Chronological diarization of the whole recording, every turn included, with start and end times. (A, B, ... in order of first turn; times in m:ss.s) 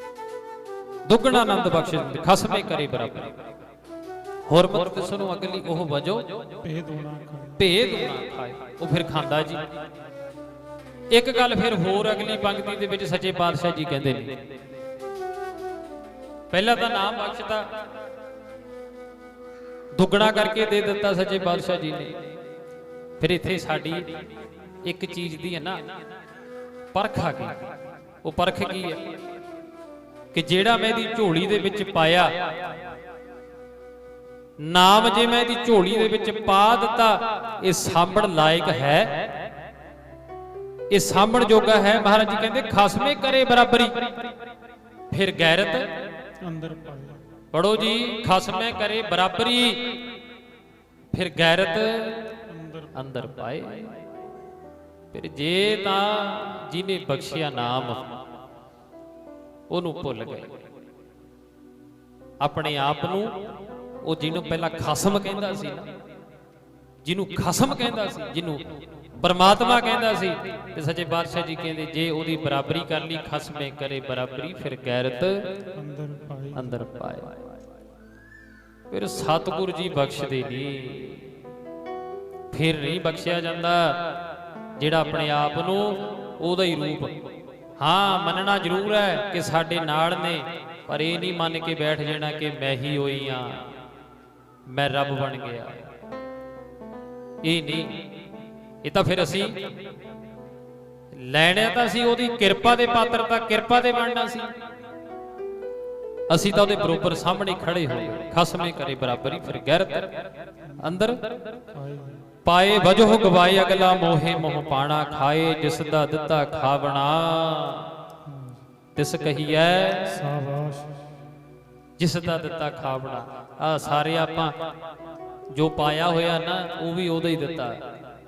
0:01.1-0:03.3 A
0:04.5-0:06.4 A
0:06.6-0:07.6 B
0:07.6-0:09.6 A
0:11.1-0:14.4 A
0:16.5-0:17.7 A
0:20.0-0:22.2 A
0:23.2-0:24.1 A
0:24.8-0:25.8 A
0:26.9-0:27.7 A
0:28.2-0:29.0 A
0:30.3-0:32.4 A
0:34.6-0:39.2 A
0:40.9-0:44.0 A
0:45.1-0:45.9 A
0:46.4-0:47.2 B
0:47.5-0:50.0 A
0:51.1-0:52.2 A
0:52.5-0:53.4 B
0:53.0-0:54.0 A
0:55.1-0:58.2 A
0:59.7-1:00.5 A
1:02.4-1:03.3 A
1:04.0-1:05.9 A
1:07.0-1:08.6 A
1:09.2-1:15.5 A
1:15.7-1:16.8 B
1:16.6-1:17.4 A
1:18.9-1:21.3 A
1:22.5-1:24.0 A
1:24.8-1:27.1 A
1:27.8-1:33.6 A
1:34.7-1:35.8 A
1:37.4-1:38.0 A
1:38.8-1:39.6 A
1:41.1-1:44.5 A
1:46.3-1:50.1 A
1:50.7-1:51.0 B
1:50.8-1:51.2 A
1:51.7-1:52.2 B
1:52.4-1:57.9 A
1:58.3-1:58.6 B
1:59.0-2:00.1 A
2:00.1-2:01.0 B
2:02.0-2:04.6 A
2:05.5-2:07.8 A